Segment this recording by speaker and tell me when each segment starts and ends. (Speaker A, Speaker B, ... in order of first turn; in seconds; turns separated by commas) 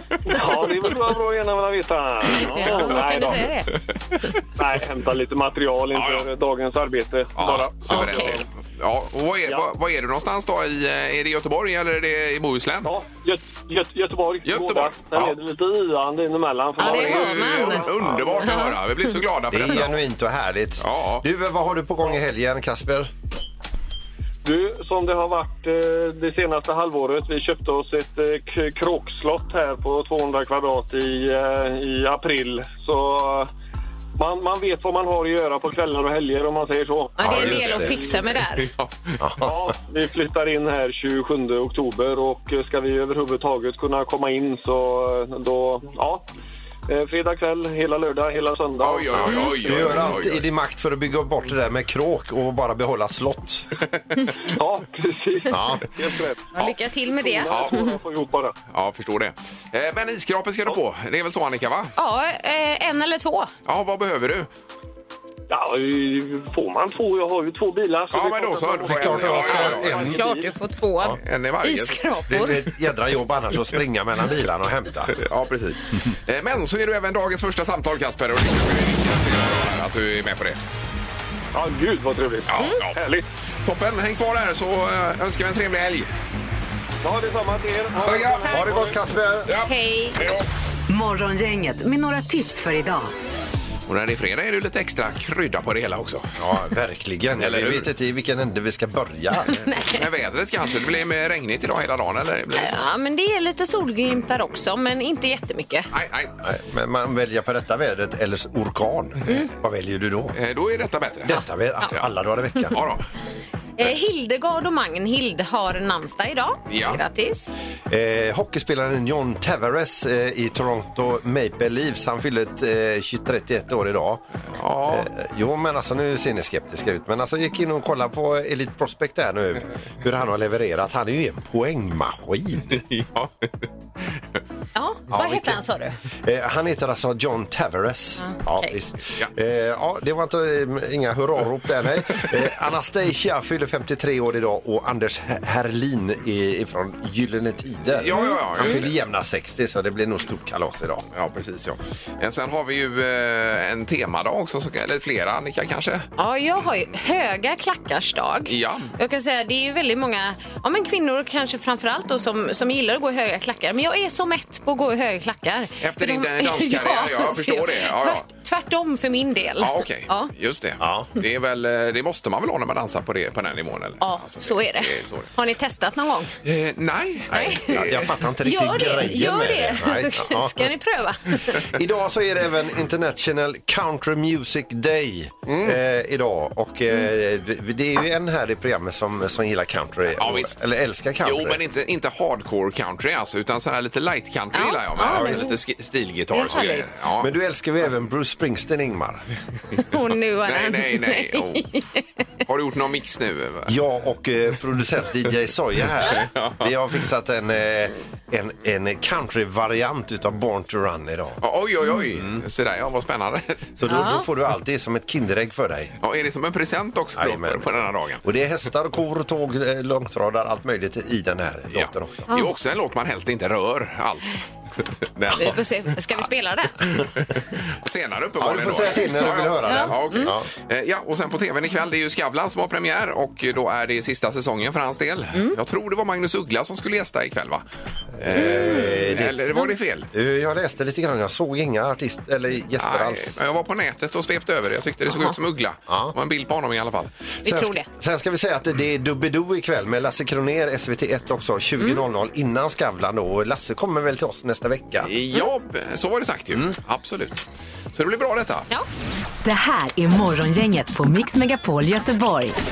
Speaker A: 0.2-3.5, Speaker B: 2.4-3.7, Speaker A: 4.5-8.4, Speaker C: 5.9-6.2, Speaker C: 7.4-12.9, Speaker B: 7.9-8.4, Speaker A: 12.8-18.5, Speaker C: 14.4-15.3, Speaker B: 16.8-18.8, Speaker C: 16.8-20.0, Speaker D: 19.5-23.1, Speaker C: 20.8-21.2, Speaker A: 24.4-33.5, Speaker A: 34.2-38.0, Speaker B: 37.2-38.7, Speaker D: 37.2-38.0, Speaker C: 38.6-39.2, Speaker D: 39.2-39.5, Speaker A: 39.4-46.2, Speaker A: 46.9-50.0, Speaker C: 48.8-50.5, Speaker D: 49.1-53.7, Speaker A: 54.5-56.5, Speaker D: 55.5-55.9, Speaker B: 56.5-58.0, Speaker A: 57.1-58.6, Speaker C: 57.5-57.8, Speaker C: 58.7-61.9, Speaker B: 62.0-63.5, Speaker C: 63.6-64.5, Speaker A: 65.5-70.5, Speaker C: 68.1-70.1, Speaker D: 68.9-70.2, Speaker B: 70.0-72.6, Speaker C: 71.2-72.1, Speaker D: 72.3-75.2, Speaker C: 75.1-80.6, Speaker A: 81.5-83.2, Speaker C: 82.5-83.0, Speaker C: 83.6-86.1, Speaker A: 87.0-89.0, Speaker C: 88.0-88.7, Speaker D: 88.5-89.5, Speaker C: 89.5-90.4, Speaker B: 89.6-90.2, Speaker E: 90.9-93.1, Speaker C: 93.9-96.4, Speaker D: 96.3-99.7, Speaker C: 97.4-97.9, Speaker B: 99.5-100.0, Speaker C: 99.9-102.9, Speaker B: 102.5-105.9, Speaker C: 105.9-106.3, Speaker D: 106.4-110.3, Speaker C: 110.3-111.3, Speaker D: 111.2-112.8, Speaker B: 111.3-111.9, Speaker C: 112.7-113.0, Speaker B: 113.8-117.5, Speaker C: 116.7-117.0, Speaker D: 117.9-124.2, Speaker C: 124.5-125.1, Speaker D: 124.8-132.7, Speaker C: 132.7-133.6, Speaker B: 134.7-135.9, Speaker D: 135.1-135.6, Speaker D: 136.2-151.1, Speaker B: 138.2-138.8, Speaker C: 147.9-148.9, Speaker B: 148.1-148.8, Speaker C: 151.1-156.1, Speaker B: 156.2-170.3, Speaker C: 158.5-158.9, Speaker C: 165.8-168.2, Speaker C: 169.6-175.3, Speaker D: 170.8-171.1, Speaker B: 174.0-176.3, Speaker C: 176.4-178.2, Speaker D: 177.3-180.7, Speaker B: 177.3-177.8, Speaker B: 178.4-181.6, Speaker D: 181.5-191.6, Speaker C: 185.5-185.8, Speaker C: 190.2-190.5, Speaker C: 191.2-197.3, Speaker B: 194.5-195.5, Speaker D: 195.0-195.5, Speaker B: 196.3-196.9, Speaker D: 197.2-199.2, Speaker B: 199.8-202.0, Speaker C: 200.4-201.7, Speaker C: 202.4-203.7, Speaker D: 203.7-211.4, Speaker C: 206.0-206.7, Speaker C: 211.4-213.6, Speaker D: 212.1-212.4, Speaker D: 213.8-215.9, Speaker B: 213.9-214.3, Speaker C: 216.0-218.2, Speaker D: 217.2-222.3, Speaker C: 221.7-224.5, Speaker B: 222.3-222.5, Speaker C: 225.2-225.7, Speaker B: 225.3-226.9, Speaker C: 226.8-237.6, Speaker D: 228.4-230.5, Speaker B: 229.6-230.3, Speaker D: 238.2-243.4, Speaker C: 238.2-240.1, Speaker B: 238.4-238.9, Speaker C: 242.8-247.1, Speaker B: 245.1-245.3, Speaker D: 245.9-246.1, Speaker B: 247.4-247.8, Speaker D: 247.4-255.1, Speaker C: 255.0-258.7, Speaker E: 259.4-262.6